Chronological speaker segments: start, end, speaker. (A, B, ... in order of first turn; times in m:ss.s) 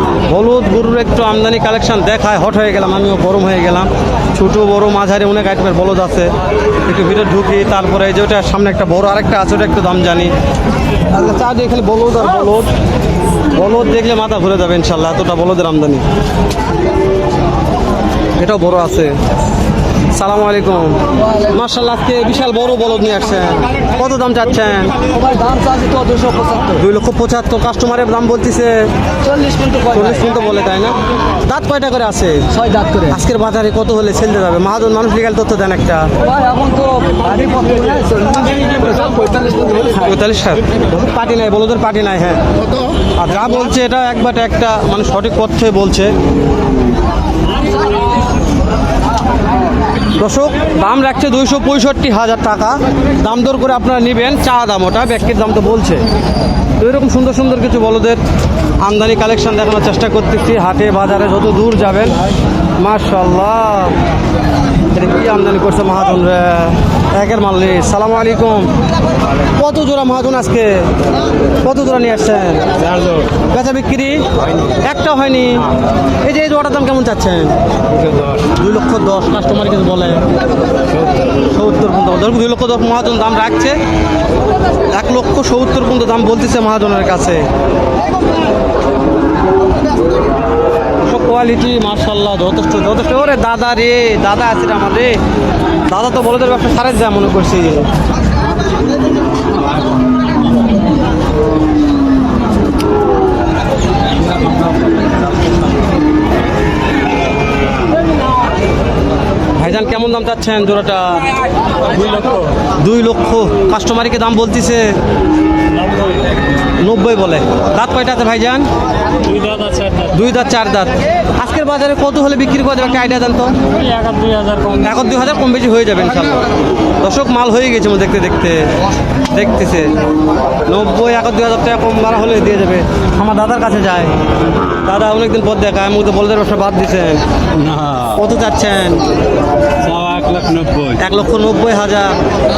0:00.2-0:06.3 A
0:06.8-0:10.3 A
0:11.1-0:12.7 A
0:13.5-0:16.0 A
0:18.4-0:19.1 A
0:20.1-0:25.0 A
0:25.1-0:26.7 B
0:26.7-0:28.9 A
0:29.2-0:30.0 B
0:29.8-0:32.5 A
0:32.6-0:33.1 B
0:33.0-0:36.1 A
0:36.2-0:39.9 B
0:39.9-0:42.4 A
0:43.2-0:46.1 A
0:50.2-0:56.0 A
0:56.8-0:58.2 A
0:58.8-1:02.2 A
1:02.8-1:04.0 A
1:04.9-1:08.7 A
1:09.6-1:10.9 A
1:11.6-1:17.5 A
1:12.9-1:13.3 C
1:18.0-1:18.4 C
1:18.4-1:20.2 A
1:21.3-1:23.8 A
1:24.9-1:27.4 A
1:31.0-1:35.2 A
1:35.9-1:37.9 A
1:49.6-1:51.3 A
1:51.9-1:52.5 C
1:52.8-1:54.9 A
1:55.7-1:56.4 C
1:56.8-1:58.7 A
1:59.2-2:00.1 C
2:00.1-2:03.6 A
2:03.7-2:04.9 C
2:04.8-2:06.5 A
2:07.0-2:08.7 A
2:09.2-2:10.0 A
2:10.7-2:14.1 A
2:14.8-2:17.2 A
2:17.5-2:18.2 C
2:18.1-2:19.0 A
2:19.8-2:21.0 C
2:21.0-2:22.2 A